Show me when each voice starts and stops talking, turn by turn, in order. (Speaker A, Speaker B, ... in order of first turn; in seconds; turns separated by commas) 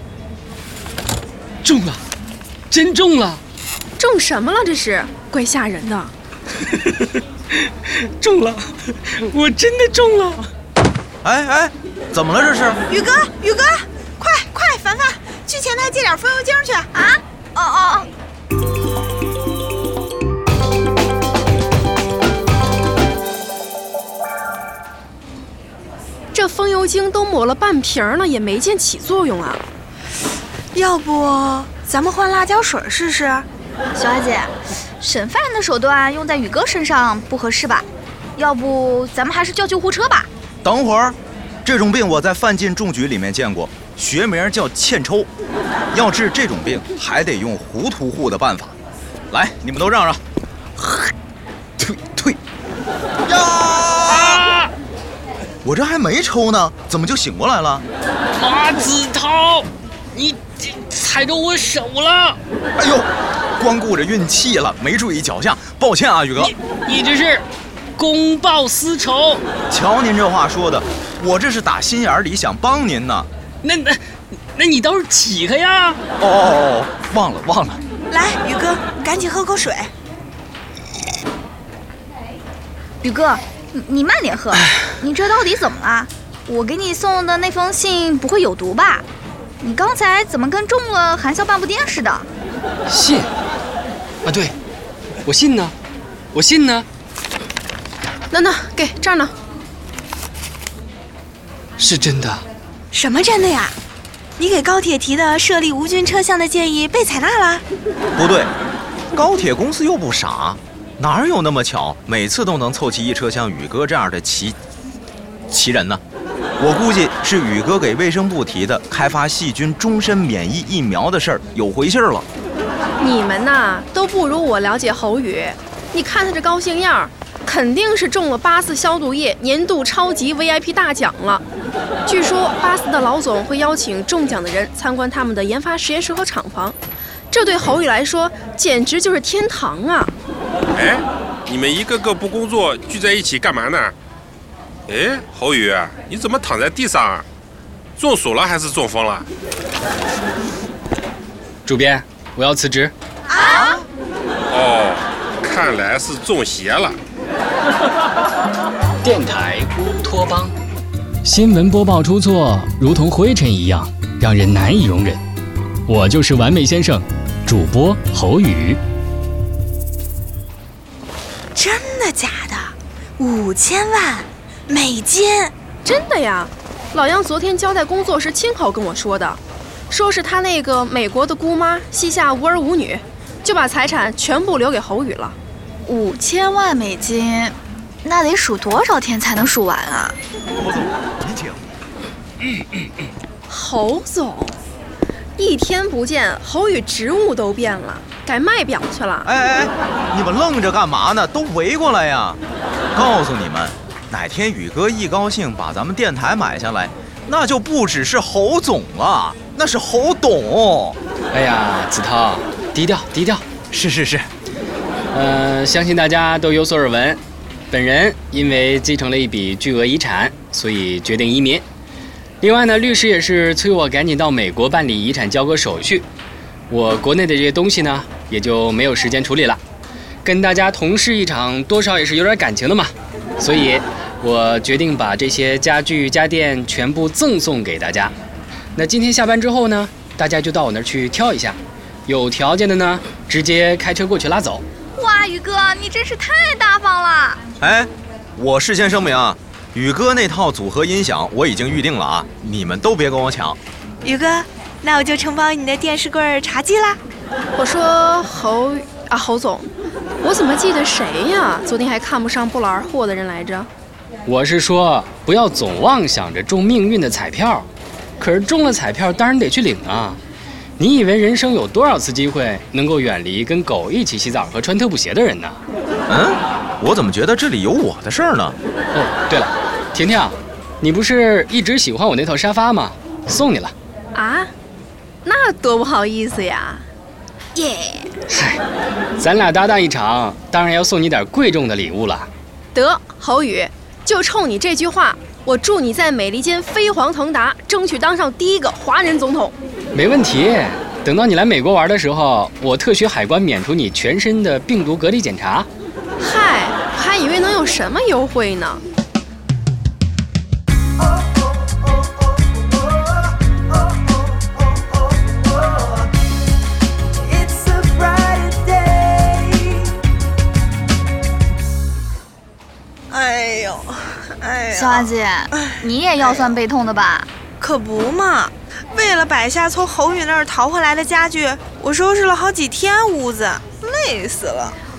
Speaker A: 1.6-2.0, Speaker A: 2.7-3.4, Speaker B: 4.0-6.1, Speaker A: 6.6-10.5, Speaker C: 11.2-12.8, Speaker D: 12.9-16.9, Speaker E: 16.9-18.1, Speaker B: 26.3-29.6, Speaker D: 30.7-33.5, Speaker E: 33.9-40.3, Speaker C: 40.6-45.3, Speaker C: 45.9-48.7, Speaker C: 49.3-50.2, Speaker C: 50.8-51.1, Speaker C: 51.8-52.4, Speaker C: 53.2-54.4, Speaker A: 54.1-54.7, Speaker C: 55.6-57.9, Speaker A: 58.4-62.4, Speaker C: 62.8-66.5, Speaker A: 66.3-67.4, Speaker A: 68.0-69.4, Speaker C: 69.7-73.3, Speaker A: 73.6-76.0, Speaker C: 76.2-77.8, Speaker D: 78.1-79.9, Speaker E: 83.0-89.0, Speaker E: 89.6-92.3, Speaker A: 92.9-93.3, Speaker A: 94.2-94.5, Speaker A: 95.2-95.7, Speaker A: 96.3-96.8, Speaker B: 98.3-99.3, Speaker A: 101.8-102.4, Speaker D: 102.9-103.8, Speaker D: 104.4-107.6, Speaker C: 108.2-108.5, Speaker C: 109.1-114.6, Speaker C: 115.5-116.0, Speaker C: 116.6-122.2, Speaker B: 123.0-131.4, Speaker B: 132.1-136.8, Speaker B: 137.3-140.1, Speaker F: 140.7-143.9, Speaker F: 144.9-147.2, Speaker F: 148.0-149.3, Speaker A: 151.6-152.9, Speaker D: 153.3-153.8, Speaker F: 154.5-157.0, Speaker A: 159.0-160.5, Speaker A: 161.2-165.2, Speaker A: 165.8-168.8, Speaker D: 171.5-175.5, Speaker B: 175.8-179.4, Speaker B: 179.9-185.3, Speaker E: 185.8-190.2, Speaker C: 190.6-191.6, Speaker B: 193.5-194.6, Speaker B: 195.4-199.3, Speaker C: 199.2-202.4, Speaker C: 202.9-211.0, Speaker A: 211.3-213.4, Speaker C: 213.7-214.3, Speaker A: 215.1-221.6, Speaker A: 222.4-226.1, Speaker A: 226.7-229.6, Speaker A: 230.2-238.1, Speaker A: 238.7-244.6, Speaker E: 244.9-247.4, Speaker C: 247.6-253.6, Speaker D: 254.0-257.0, Speaker B: 257.6-259.7, Speaker B: 260.2-263.7, Speaker A: 264.2-267.7, Speaker A: 268.2-270.2, Speaker A: 270.8-275.6, Speaker C: 276.1-278.6, Speaker A: 278.9-283.7, Speaker B: 284.1-284.5, Speaker B: 285.2-286.9, Speaker E: 287.5-288.1, Speaker A: 288.3-288.6, Speaker A: 289.2-292.3, Speaker B: 292.7-299.5, Speaker A: 299.9-305.7, Speaker B: 306.2-308.8, Speaker D: 317.2-319.9, Speaker D: 323.1-325.1, Speaker E: 324.7-327.3, Speaker D: 327.6-334.8